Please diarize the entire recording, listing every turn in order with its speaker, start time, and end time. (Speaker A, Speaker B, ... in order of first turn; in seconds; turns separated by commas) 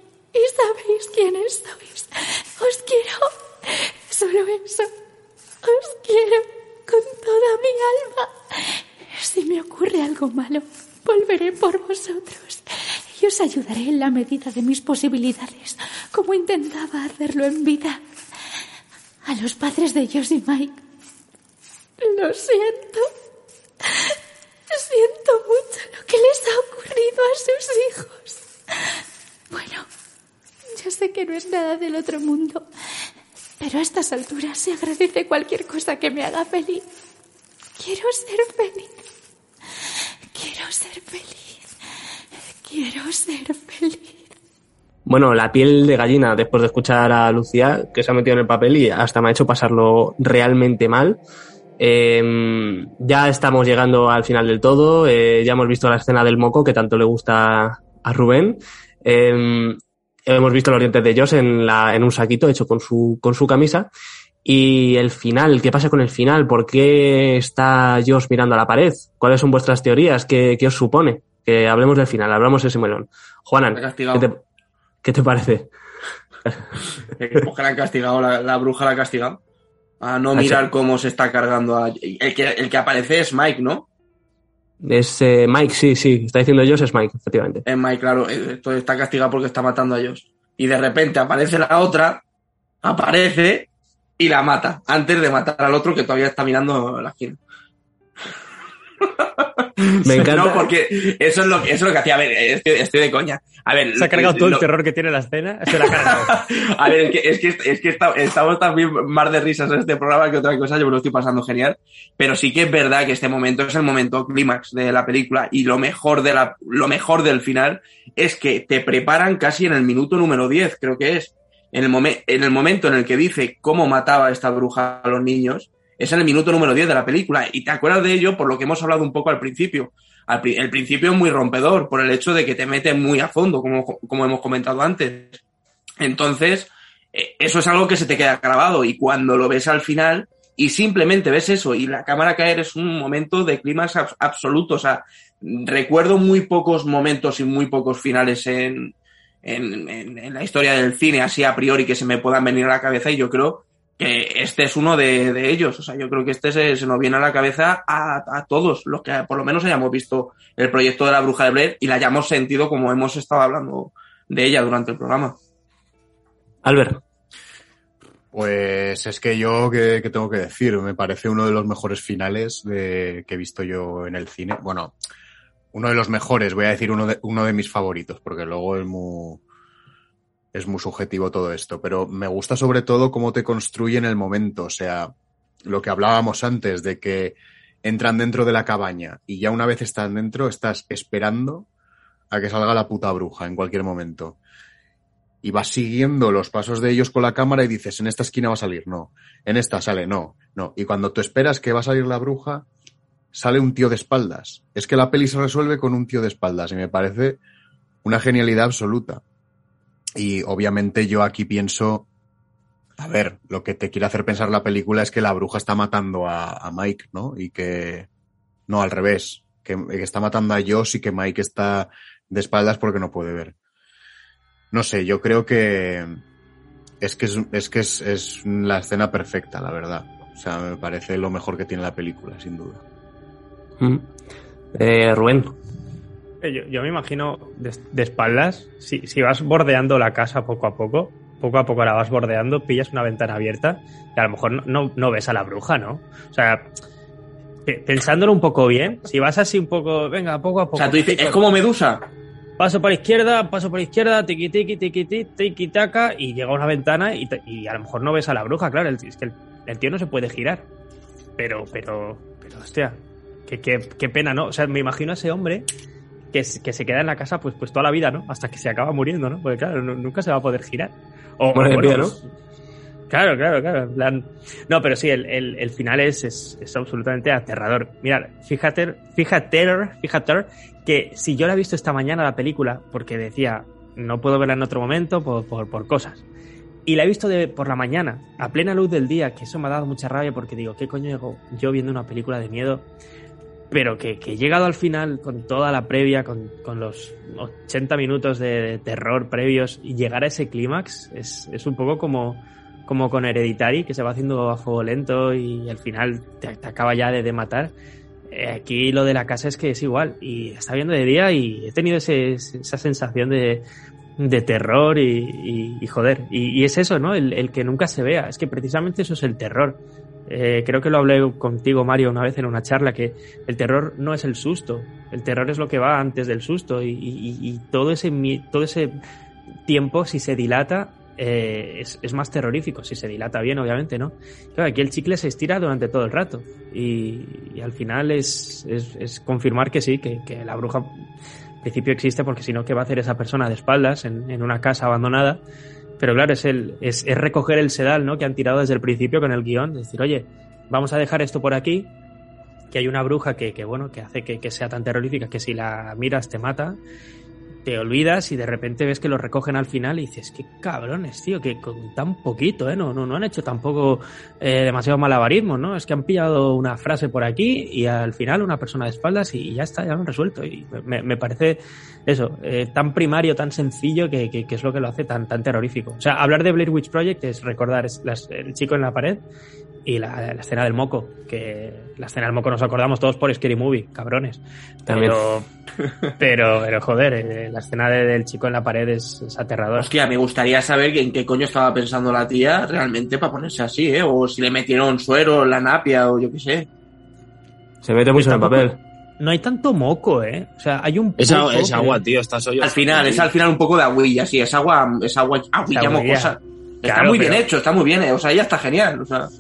Speaker A: 0.3-4.9, Speaker A: 5.6-18.0, Speaker A: 19.3-20.8, Speaker A: 22.0-23.1, Speaker A: 24.7-28.4, Speaker A: 29.5-29.9, Speaker A: 30.8-32.6, Speaker A: 33.6-36.9, Speaker A: 37.8-39.0, Speaker A: 40.3-41.6, Speaker A: 42.6-44.2, Speaker B: 45.1-51.2, Speaker B: 51.8-63.9, Speaker B: 64.5-74.4, Speaker C: 73.8-74.3, Speaker B: 75.0-75.7, Speaker C: 77.2-79.4, Speaker C: 80.0-83.9, Speaker B: 80.4-80.6, Speaker B: 84.8-87.7, Speaker C: 87.7-92.2, Speaker C: 92.8-93.7, Speaker C: 94.2-97.4, Speaker C: 99.2-104.7, Speaker B: 100.0-100.7, Speaker D: 104.0-106.4, Speaker C: 105.8-135.4, Speaker C: 136.0-148.9, Speaker C: 149.4-165.4, Speaker B: 166.6-167.0, Speaker E: 168.3-174.9, Speaker E: 175.7-179.4, Speaker E: 180.5-185.1, Speaker E: 185.7-191.7, Speaker E: 192.3-194.4, Speaker E: 195.4-202.7, Speaker E: 203.3-207.4, Speaker E: 208.0-209.2, Speaker E: 210.2-212.1, Speaker E: 213.0-218.1, Speaker E: 218.7-223.5, Speaker E: 224.7-226.2, Speaker E: 227.0-232.8, Speaker B: 233.8-234.1, Speaker B: 234.8-235.6, Speaker D: 236.4-246.7, Speaker D: 247.7-251.4, Speaker C: 250.8-252.1, Speaker D: 252.6-260.7, Speaker D: 261.4-265.7, Speaker D: 266.3-272.3, Speaker B: 271.5-272.2, Speaker D: 273.1-286.2, Speaker D: 286.9-292.9, Speaker D: 293.7-307.7, Speaker D: 308.3-313.7, Speaker D: 314.2-329.0, Speaker D: 329.7-341.0, Speaker D: 341.6-345.4, Speaker D: 346.0-351.9, Speaker D: 352.7-356.8, Speaker D: 357.6-379.2, Speaker D: 379.9-385.5, Speaker B: 384.9-385.2, Speaker D: 386.2-389.9, Speaker C: 389.8-396.7, Speaker B: 397.8-398.8, Speaker D: 398.1-398.7, Speaker D: 399.2-402.0, Speaker F: 401.2-403.3, Speaker C: 402.6-409.3, Speaker D: 405.7-407.4